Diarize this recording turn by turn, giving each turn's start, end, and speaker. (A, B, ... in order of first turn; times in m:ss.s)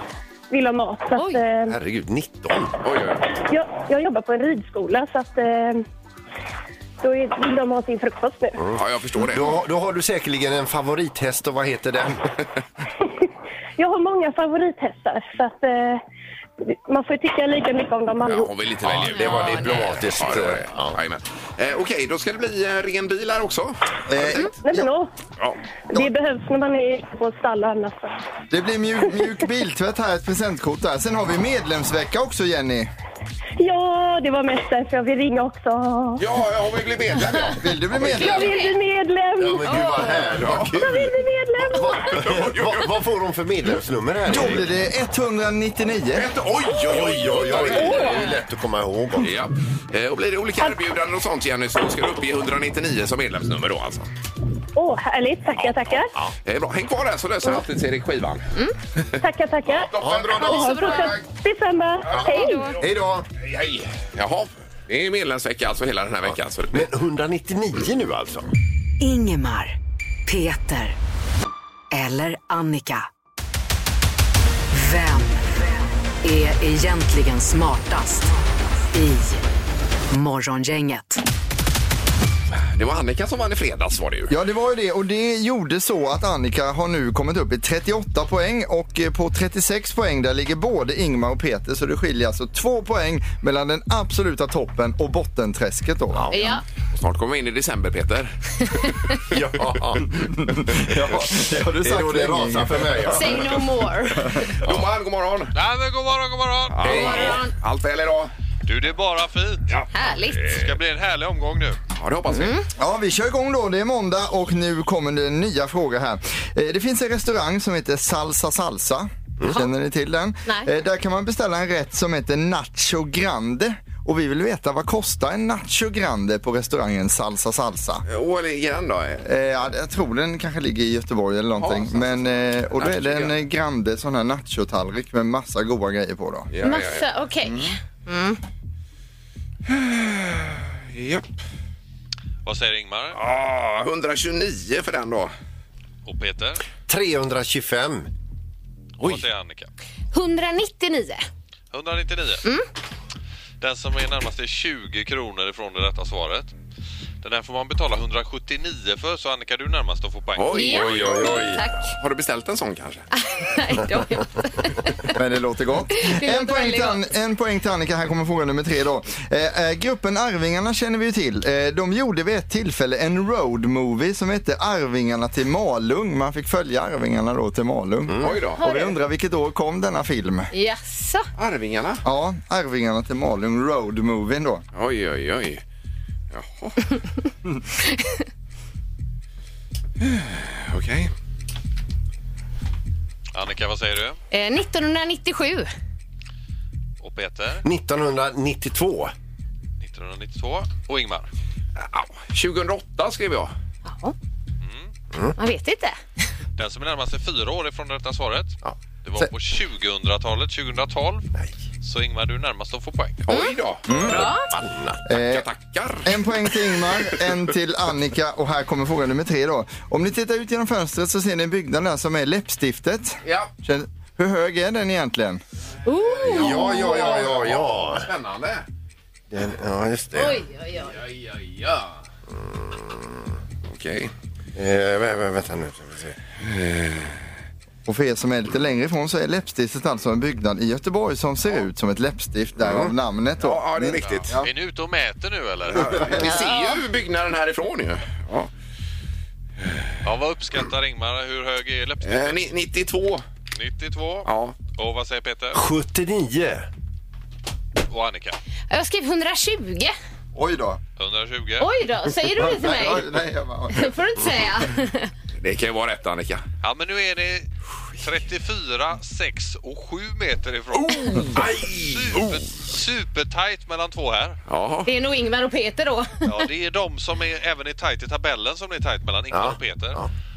0:00.5-0:01.8 A
0:01.1-0:01.4 B
0:01.7-0:02.8 C
0:02.8-0:03.3 D
0:03.4-0:05.8 A
0:07.0-0:08.6 A
0:08.6-0:12.3 C
0:08.7-0:09.5 D
0:13.8-0:16.0 A
0:16.6-0:18.5 A
0:18.2-0:23.8 D
0:18.8-0:21.0 C
0:19.1-0:19.7 B
0:24.1-0:24.9 E
0:24.6-0:25.1 A
0:25.9-0:28.2 A
0:28.5-0:32.9 E
0:33.6-0:36.2 A
0:36.2-0:38.4 D
0:37.6-0:38.5 E
0:38.1-0:38.8 B
0:38.1-0:42.2 A
0:39.4-0:44.6 C
0:39.7-0:40.2 B
0:40.3-0:40.8 D
0:42.1-0:42.9 D
0:44.3-0:46.3 E
0:46.1-0:48.2 D
0:46.8-0:49.4 C
0:49.2-0:54.1 D
0:54.7-0:56.1 A
0:55.6-0:55.9 D
0:56.4-0:58.5 D
0:59.2-1:02.6 A
0:59.7-1:01.2 D
1:00.0-1:00.8 C
1:00.4-1:01.1 B
1:02.1-1:03.3 C
1:02.2-1:02.8 B
1:03.4-1:06.9 D
1:06.3-1:08.5 C
1:09.0-1:09.7 F
1:10.2-1:11.0 F
1:11.9-1:13.1 F
1:14.7-1:18.3 F
1:18.9-1:19.4 F
1:20.1-1:21.2 F
1:22.5-1:24.4 D
1:24.3-1:36.5 E
1:36.1-1:36.5 C
1:36.3-1:36.6 B
1:36.9-1:39.4 D
1:39.3-1:40.2 C
1:40.2-1:43.4 E
1:41.8-1:43.6 C
1:43.1-1:44.5 B
1:44.2-1:44.5 E
1:44.6-1:45.5 D
1:45.5-1:47.3 G
1:46.7-1:48.3 D
1:46.8-1:47.4 C
1:46.9-1:47.5 B
1:48.6-1:49.8 G
1:49.9-1:50.5 B
1:50.4-1:51.8 G
1:52.0-1:52.6 D
1:52.3-1:52.6 B
1:52.8-2:08.0 E
2:08.0-2:09.2 D
2:09.2-2:16.5 E
2:11.6-2:12.1 D
2:12.7-2:13.4 D
2:16.5-2:17.0 D
2:16.6-2:18.4 B
2:19.6-2:21.3 D
2:22.4-2:23.2 G
2:23.1-2:25.3 D
2:26.0-2:26.6 G
2:26.9-2:28.1 C
2:29.0-2:29.7 G
2:30.1-2:31.2 B
2:31.7-2:32.4 G
2:33.6-2:36.5 G
2:37.2-2:40.8 G
2:40.4-2:43.1 D
2:40.5-2:41.9 B
2:40.8-2:41.5 C
2:43.2-2:44.9 B
2:45.1-3:00.5 E
2:45.9-2:47.0 B
2:58.1-2:58.4 C
2:58.2-2:58.6 D
2:58.6-2:58.9 B
3:00.5-3:01.3 B
3:01.4-3:02.0 D
3:02.0-3:04.6 E
3:04.7-3:05.6 D
3:06.3-3:06.9 D
3:10.0-3:11.1 D
3:13.3-3:14.2 G
3:14.3-3:15.7 B
3:17.0-3:17.6 G
3:17.6-3:19.1 C
3:19.8-3:21.3 G
3:21.8-3:23.5 D
3:23.8-3:24.1 B
3:24.6-3:24.9 G
3:25.4-3:26.0 B
3:26.6-3:31.3 G
3:28.6-3:29.3 C
3:31.8-3:33.2 G
3:33.2-3:34.3 D
3:33.3-3:33.6 B
3:33.9-3:34.3 E
3:34.1-3:34.5 B
3:34.1-3:35.0 C
3:35.1-3:35.4 E
3:35.1-3:36.9 D
3:36.0-3:45.4 E
3:43.2-3:43.5 D
3:45.8-3:47.2 B
3:45.9-3:48.6 D
3:46.2-3:48.1 C
3:49.3-3:50.4 C
3:50.1-3:50.9 B
3:50.8-3:52.0 D
3:52.7-3:53.0 C
3:53.6-3:54.1 D
3:54.5-3:56.2 C
3:56.4-3:57.2 D
3:57.8-4:04.5 E
4:02.6-4:02.9 C
4:03.4-4:04.3 D
4:04.0-4:06.3 G
4:05.7-4:08.5 D
4:06.2-4:06.8 B
4:09.6-4:10.0 D
4:10.0-4:12.5 G
4:12.0-4:13.2 D
4:13.6-4:15.6 G
4:14.2-4:14.6 D
4:15.5-4:16.6 C
4:17.9-4:18.4 G
4:18.7-4:19.9 B
4:20.3-4:20.8 E
4:21.0-4:21.7 G
4:21.6-4:23.1 B
4:22.4-4:23.9 E
4:23.7-4:25.1 B
4:25.4-4:26.4 D
4:26.6-4:27.5 G
4:28.0-4:34.4 G
4:31.3-4:32.2 C
4:34.5-4:34.9 D
4:34.8-4:36.3 B
4:36.3-4:40.0 G
4:39.3-4:40.1 C